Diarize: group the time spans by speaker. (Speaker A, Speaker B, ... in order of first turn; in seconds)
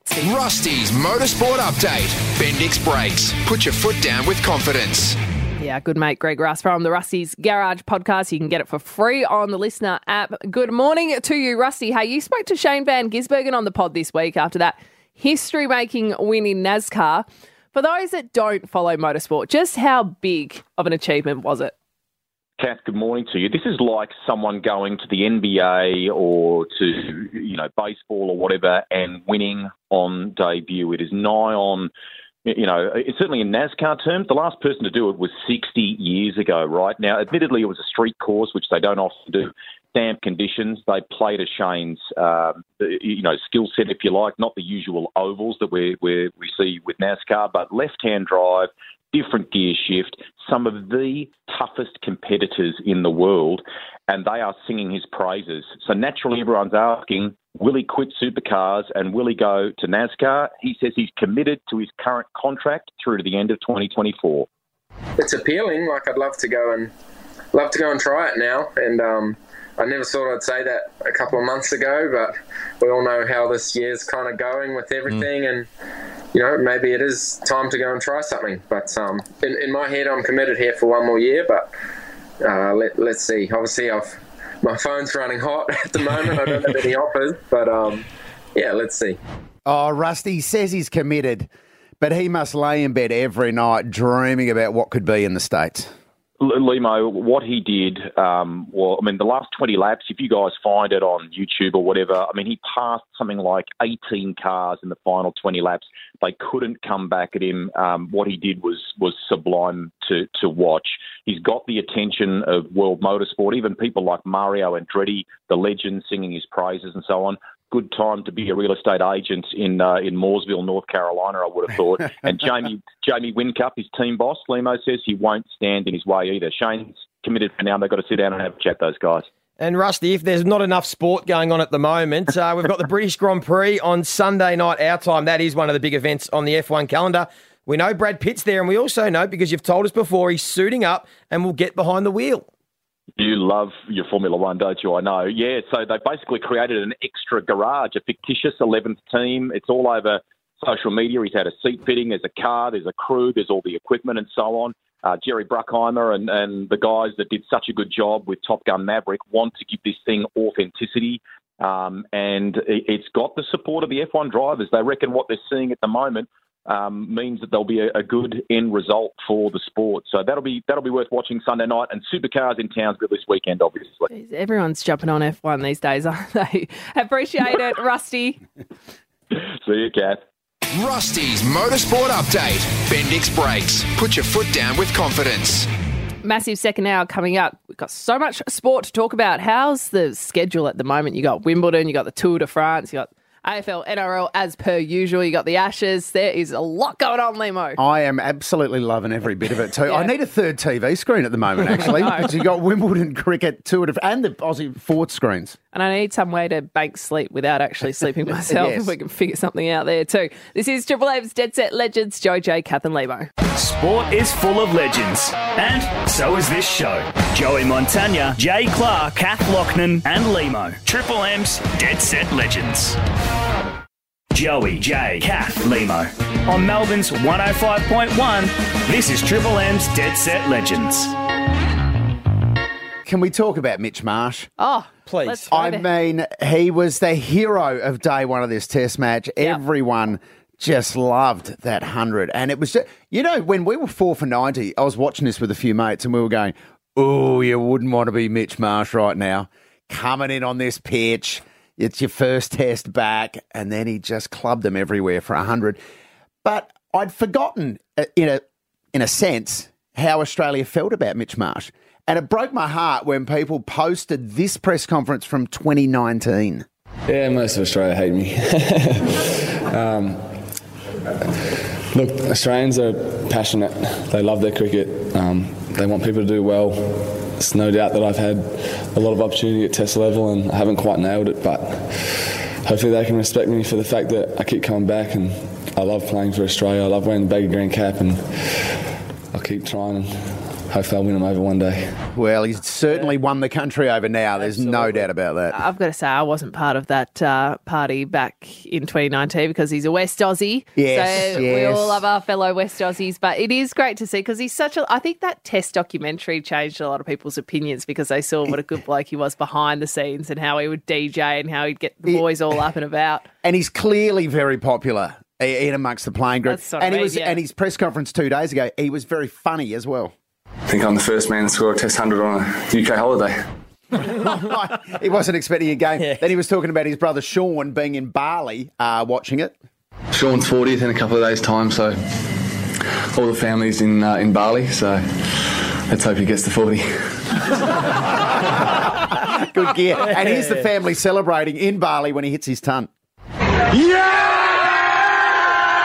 Speaker A: 0.2-5.2, 180.8-185.7
Speaker B: 5.6-21.7, 174.1-178.4, 186.2-197.8, 199.9-200.1, 201.9-202.3, 205.7-213.3, 234.6-235.9, 295.5-313.3, 316.5-317.4
Speaker C: 22.6-31.9, 32.5-64.5, 96.4-129.3, 143.2-174.1, 179.3-180.2
Speaker D: 65.2-66.9, 67.5-75.7, 76.3-81.7, 82.4-89.2
Speaker E: 89.7-91.5, 92.0-95.9, 197.8-205.6, 208.5-208.9, 233.1-234.5, 235.5-255.8, 256.4-258.4, 258.9-266.7, 292.1-295.6, 300.8-302.0, 313.4-320.1, 324.1-329.6, 339.1-342.9
Speaker F: 129.6-142.5, 235.1-235.5, 294.4-295.1, 326.0-326.2, 340.0-340.7
Speaker G: 213.5-223.0, 224.3-231.1
Speaker H: 267.1-269.1, 269.7-270.2, 271.9-288.4, 289.3-292.0, 320.7-323.3, 330.1-331.9, 333.1-335.0, 335.9-336.8